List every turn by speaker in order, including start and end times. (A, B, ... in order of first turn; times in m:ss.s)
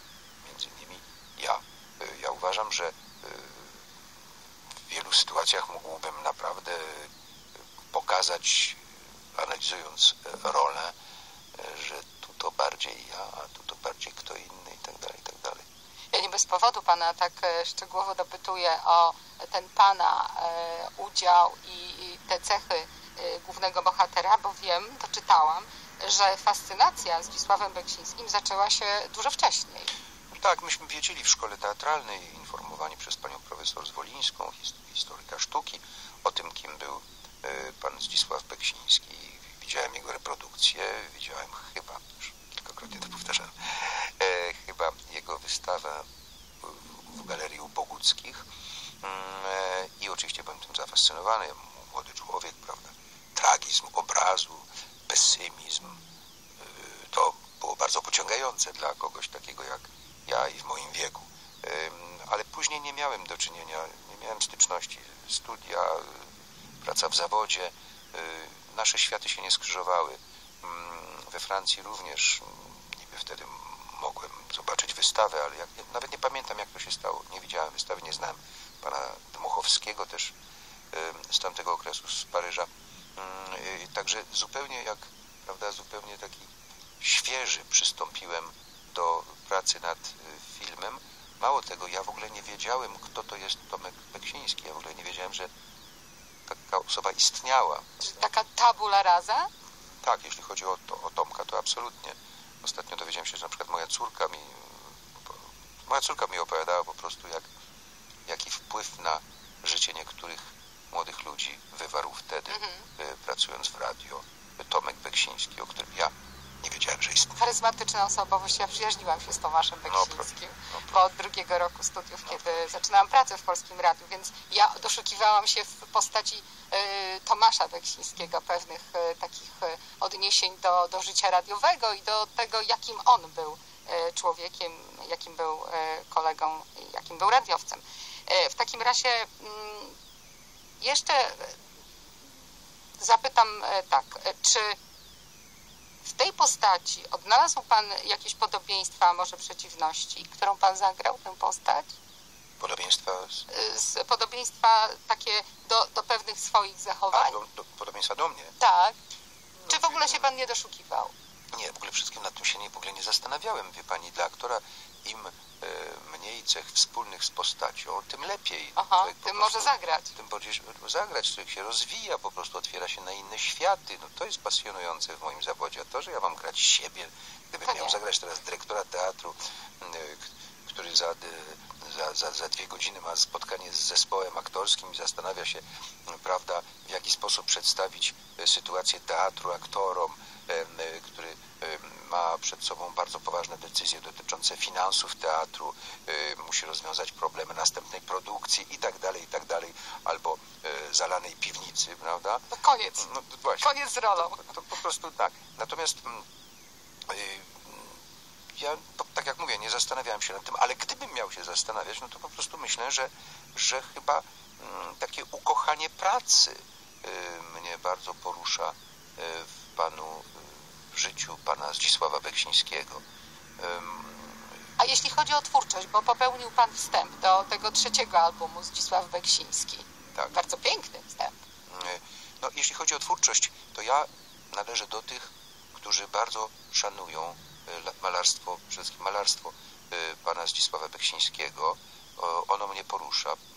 0:00.4-0:03.8 A
0:04.9-0:07.1 A
0:07.9-0:10.9 A
0:11.6-0:15.6 A
0:16.1-0:29.9 B
0:30.3-0:43.6 A
0:44.1-0:46.1 A
0:46.6-0:48.4 A
0:49.0-0:56.0 A
0:56.6-1:06.2 A
1:06.8-1:20.3 A
1:20.9-1:26.5 A
1:27.0-1:35.5 A
1:36.5-1:37.9 A
1:38.0-1:39.5 B
1:40.0-1:47.5 A
1:48.3-1:57.3 A
1:52.5-1:52.9 B
1:57.4-2:19.9 B
1:59.9-2:01.0 A
2:02.3-2:02.7 A
2:20.8-2:21.5 B
2:23.0-2:24.8 B
2:26.1-2:31.9 B
2:32.6-2:33.4 A
2:33.5-2:37.4 B
2:37.1-2:38.5 A
2:38.6-2:38.9 B
2:39.6-2:40.3 A
2:39.7-2:41.1 B
2:41.5-3:22.4 A
2:48.8-2:50.1 B
2:57.6-2:58.0 B
3:22.5-3:23.1 B
3:23.0-3:26.2 A
3:23.6-3:24.5 B
3:27.1-3:28.0 A
3:28.6-3:43.0 A
3:43.6-3:44.5 A
3:44.8-3:51.4 B
3:51.7-4:03.4 A